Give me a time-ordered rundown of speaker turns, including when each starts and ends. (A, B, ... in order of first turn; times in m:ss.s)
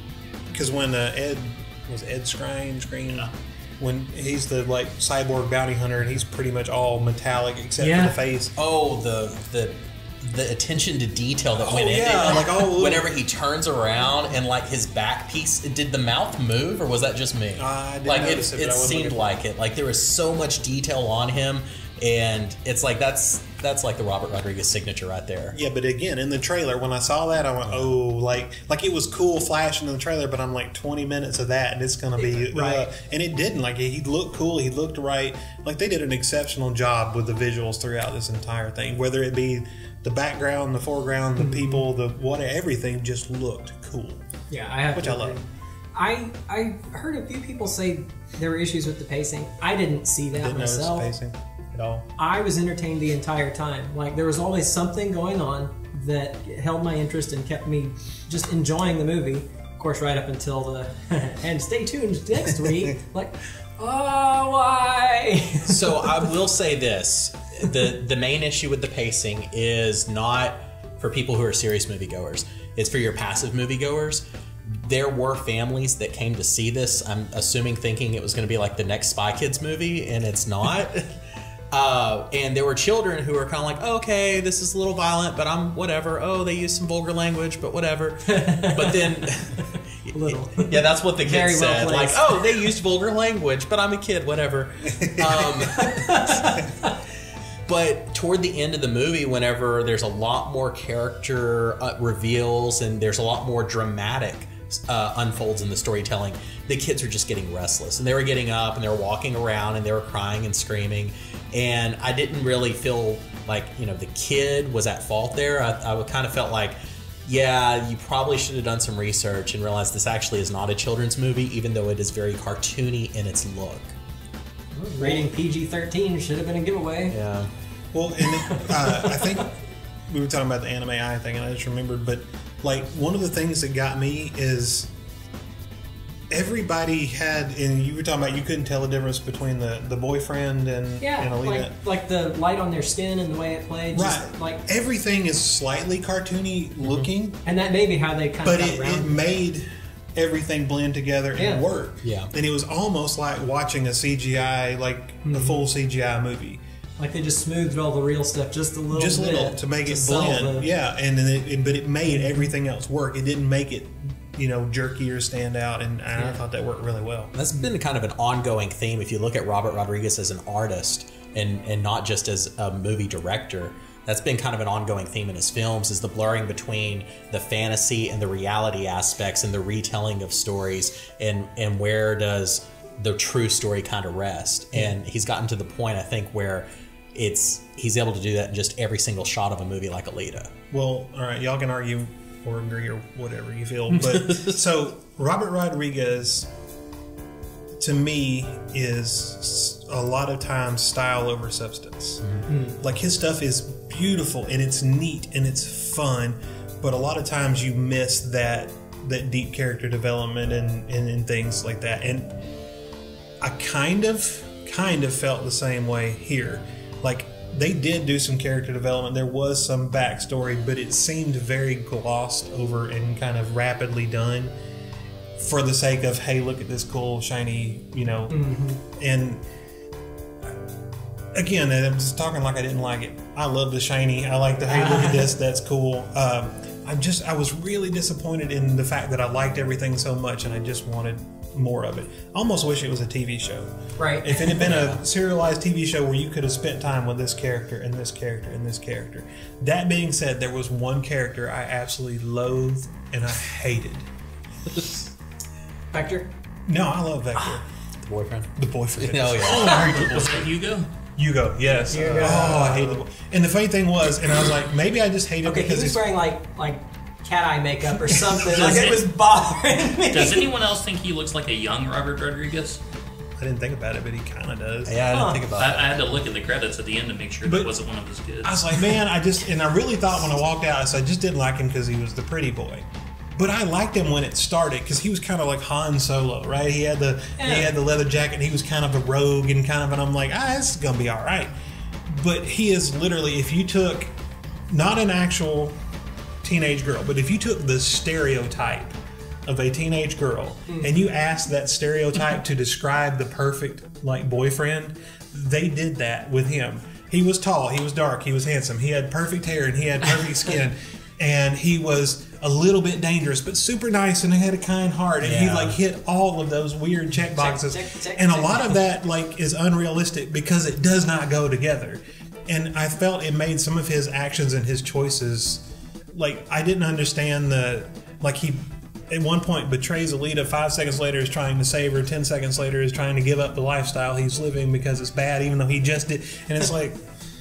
0:00.5-0:08.5 A
0:07.8-0:08.2 B
0:08.6-0:25.6 C
0:11.6-0:13.1 A
0:17.6-0:19.2 A
0:25.5-0:44.3 A
0:27.6-0:27.9 C
0:32.2-0:32.9 B
0:41.4-0:41.8 B
0:44.5-0:51.1 B
0:44.9-0:45.4 A
0:50.4-0:52.1 A
0:52.2-1:06.2 B
1:05.7-1:21.2 C
1:21.7-1:37.0 C
1:28.3-1:29.3 B
1:30.1-1:32.4 B
1:35.0-1:35.9 A
1:35.9-1:36.9 B
1:37.6-2:03.9 C
2:04.7-2:07.2 B
2:07.1-2:07.5 C
2:07.9-2:14.9 A
2:08.2-2:09.3 B
2:16.3-2:21.8 A
2:21.0-2:24.6 B
2:23.9-2:27.4 A
2:26.8-2:27.1 C
2:27.4-2:29.2 B
2:28.4-2:36.6 A
2:31.4-2:31.6 B
2:32.0-2:32.3 C
2:35.2-2:35.6 B
2:37.0-2:40.7 B
2:38.9-2:47.3 A
2:42.2-2:42.5 B
2:47.4-3:10.5 C
3:10.7-3:16.5 A
3:13.9-3:14.6 C
3:17.8-3:22.2 A
3:22.5-3:22.8 B
3:22.8-3:32.4 A
3:33.4-3:44.5 A
3:45.4-3:49.4 A
3:48.3-3:48.8 B
3:51.3-4:14.1 A
3:54.7-3:55.3 B
4:04.0-4:04.6 B
4:04.6-4:05.0 C
4:14.7-4:15.0 C
4:15.9-4:16.3 B
4:16.7-4:17.6 A
4:18.0-4:19.8 C
4:18.6-4:20.5 A
4:19.4-4:20.9 D
4:21.2-4:26.0 A
4:21.8-4:23.0 B
4:25.4-4:30.5 B
4:28.1-4:28.8 A
4:28.5-4:29.1 D
4:30.0-4:32.8 D
4:33.4-4:35.0 A
4:34.9-4:36.0 C
4:35.1-4:35.5 B
4:35.6-4:39.0 D
4:37.4-4:37.7 A
4:38.4-4:51.5 A
4:47.4-4:47.7 B
4:52.1-4:54.1 A
4:54.7-4:55.8 A
4:56.4-5:37.0 A
5:15.2-5:15.8 C
5:17.3-5:18.8 B